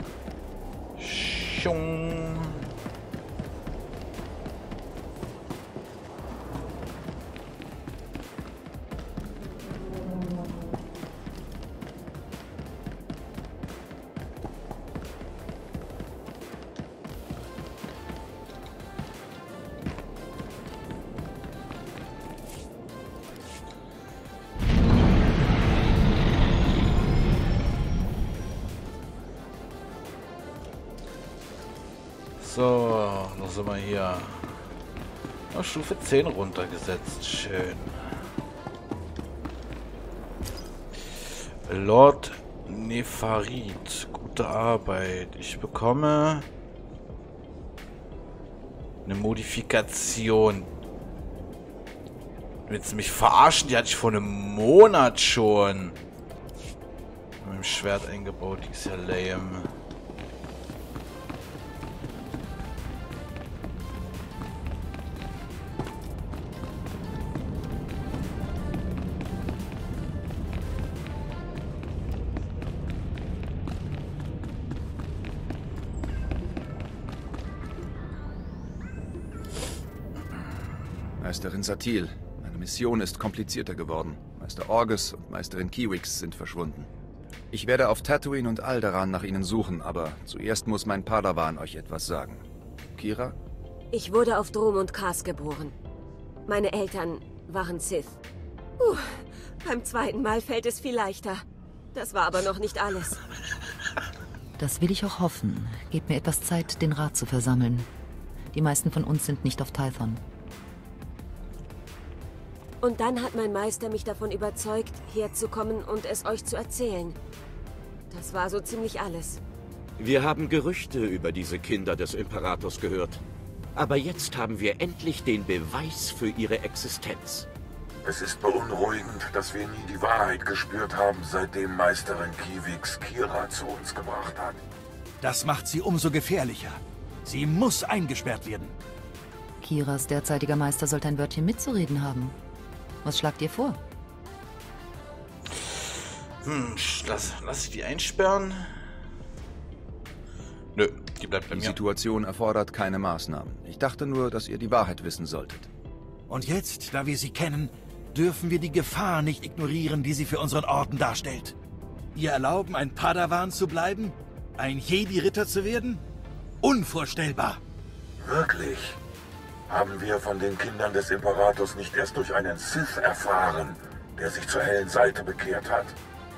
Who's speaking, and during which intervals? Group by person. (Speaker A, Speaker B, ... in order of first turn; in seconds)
Speaker A: 1.0-2.7, 32.4-34.7, 35.5-38.2, 41.7-46.5, 49.0-50.7, 52.7-56.0, 57.4-59.7, 145.5-145.9, 146.4-148.8, 150.8-151.8
Speaker B: 81.2-86.9, 87.5-93.4, 151.5-155.7
Speaker C: 93.9-95.7, 96.5-98.2, 98.8-103.2, 112.8-117.2, 118.1-119.4
Speaker D: 104.6-107.9, 108.5-110.2, 139.6-142.4, 143.0-143.8
Speaker E: 120.0-123.2, 123.8-127.5
Speaker F: 128.0-134.6, 168.2-169.0, 169.7-175.9
Speaker G: 135.2-138.8, 156.3-161.6, 162.1-166.0, 166.6-167.6